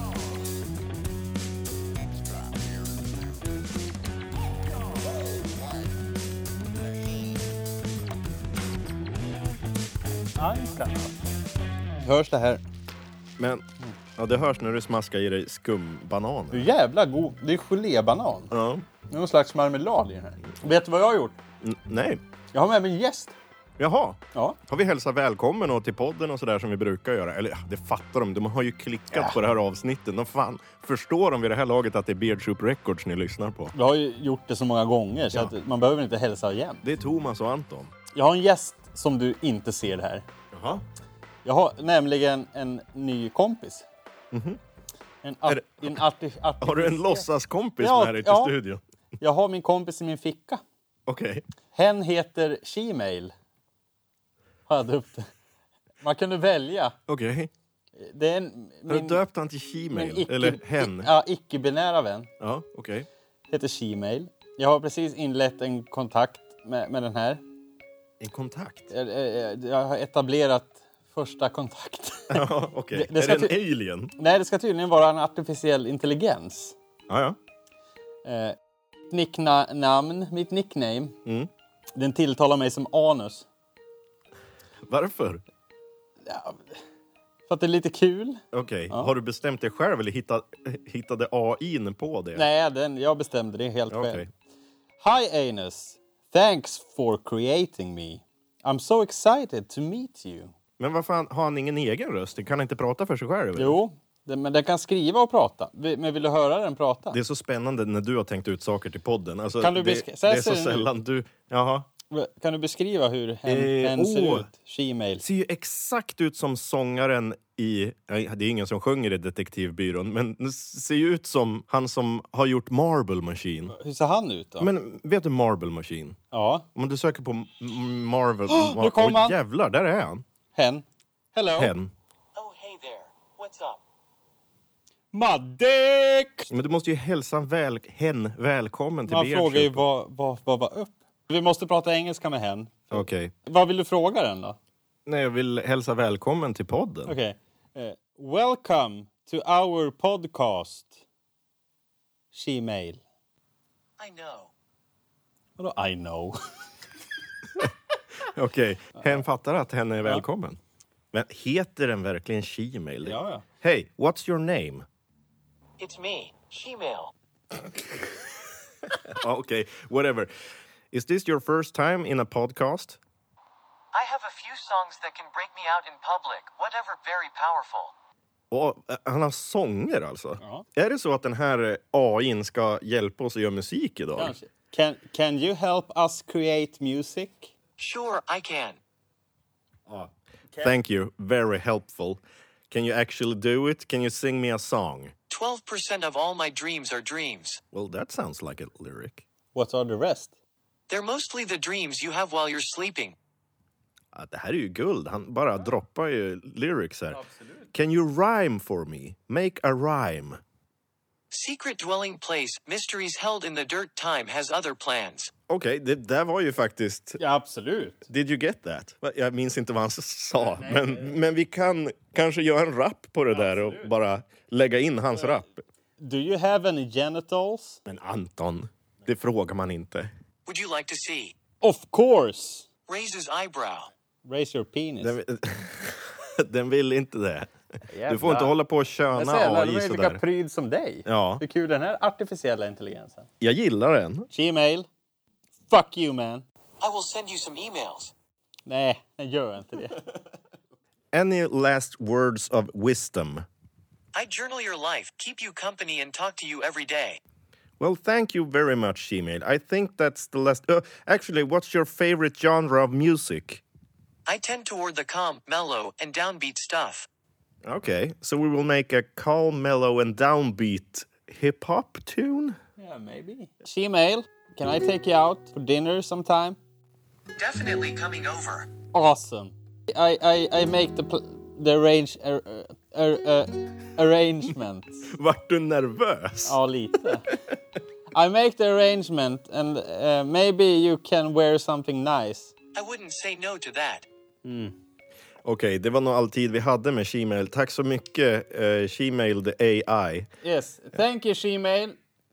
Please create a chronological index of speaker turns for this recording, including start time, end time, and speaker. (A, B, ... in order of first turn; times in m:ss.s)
0:10.4-0:11.2 A
0:12.0-0:12.6 A
0:13.4-0:13.6 B
0:14.2-0:16.7 B
0:16.5-0:18.5 A
0:18.5-0:18.8 B
0:19.1-0:21.4 A
0:21.6-0:22.2 B
0:22.5-0:23.3 A
0:23.8-0:33.7 B
0:29.1-0:29.4 A
0:33.7-0:36.8 A
0:36.8-0:37.9 B
0:38.1-0:40.2 A
0:40.5-0:40.8 B
0:41.4-0:43.8 A
0:44.3-0:44.6 B
0:45.2-0:47.2 A
0:45.5-0:46.0 B
0:46.6-0:48.8 B
0:47.8-0:48.5 A
0:49.2-0:50.6 A
0:51.1-0:51.4 B
0:51.7-0:53.3 A
0:54.7-0:55.3 A
0:56.0-0:57.0 A
0:57.1-0:57.5 B
0:58.0-0:59.2 A
0:58.9-1:01.1 B
0:59.9-1:02.3 A
1:02.4-1:03.1 B
1:03.5-1:07.4 A
1:08.2-1:08.9 B
1:08.9-1:13.5 A
1:12.3-1:14.1 B
1:14.2-1:16.7 A
1:17.1-1:17.4 B
1:18.2-1:18.6 A
1:19.1-1:21.2 A
1:21.9-1:23.4 A
1:24.8-1:25.4 B
1:26.2-1:26.7 A
1:27.5-1:29.1 A
1:28.5-1:32.4 B
1:32.3-1:34.3 A
1:33.9-1:34.3 B
1:35.0-1:40.5 A
1:40.8-1:43.8 B
1:43.6-1:47.2 A
1:47.1-1:51.9 B
1:49.6-1:50.9 A
1:52.1-1:55.2 A
1:53.4-1:54.5 B
1:55.2-2:03.7 B
2:03.7-2:04.7 A
2:04.6-2:06.2 B
2:06.3-2:06.6 A
2:06.7-2:10.2 B
2:08.5-2:09.4 A
2:10.5-2:11.7 A
2:11.5-2:11.9 B
2:12.4-2:13.8 C
2:15.1-2:16.5 A
2:16.5-2:19.8 B
2:19.1-2:24.6 A
2:22.9-2:23.3 B
2:25.0-2:27.1 B
2:27.0-2:31.0 A
2:32.3-2:33.0 A
2:34.0-2:34.5 C
2:35.6-2:36.4 A
2:38.3-2:40.6 B
2:41.1-2:44.8 B
2:43.0-2:43.4 A
2:45.8-2:47.1 C
2:49.0-2:50.3 B
2:50.9-2:53.0 B
2:53.9-2:57.9 C
2:58.5-3:04.3 B
3:04.2-3:07.5 A
3:07.8-3:08.8 C
3:10.6-3:15.1 B
3:15.3-3:17.6 C
3:17.7-3:19.2 B
3:19.5-3:20.3 A
3:20.9-3:23.2 C
3:24.1-3:27.2 B
3:27.1-3:27.7 A
3:27.7-3:30.4 B
3:31.3-3:35.3 C
3:35.5-3:37.2 B
3:37.2-3:38.0 A
3:38.1-3:45.6 B
3:40.6-3:41.1 A
3:46.0-3:47.8 A
3:47.8-3:50.1 B
3:50.4-3:51.3 C
3:51.6-3:52.6 A
3:52.9-3:53.9 C
3:54.2-3:55.2 A
3:55.0-3:57.5 B
3:57.9-3:58.5 A
3:58.0-4:00.2 B
3:59.1-4:03.3 A
4:01.0-4:01.4 B
4:03.4-4:04.3 B
4:04.3-4:04.9 A
4:05.7-4:06.4 A
4:06.8-4:08.1 C
4:08.6-4:10.0 A
4:11.1-4:13.4 B
4:14.1-4:17.2 C
4:17.8-4:23.6 B
4:24.2-4:27.1 C
4:27.6-4:32.6 B
4:32.8-4:36.6 A
4:37.4-4:38.7 C
4:38.9-4:45.1 A
4:45.1-4:46.6 B
4:46.4-4:47.3 A
4:48.1-4:52.5 A
4:52.7-4:54.0 C
4:54.4-4:54.8 A
4:55.4-5:00.3 B
5:00.4-5:02.0 A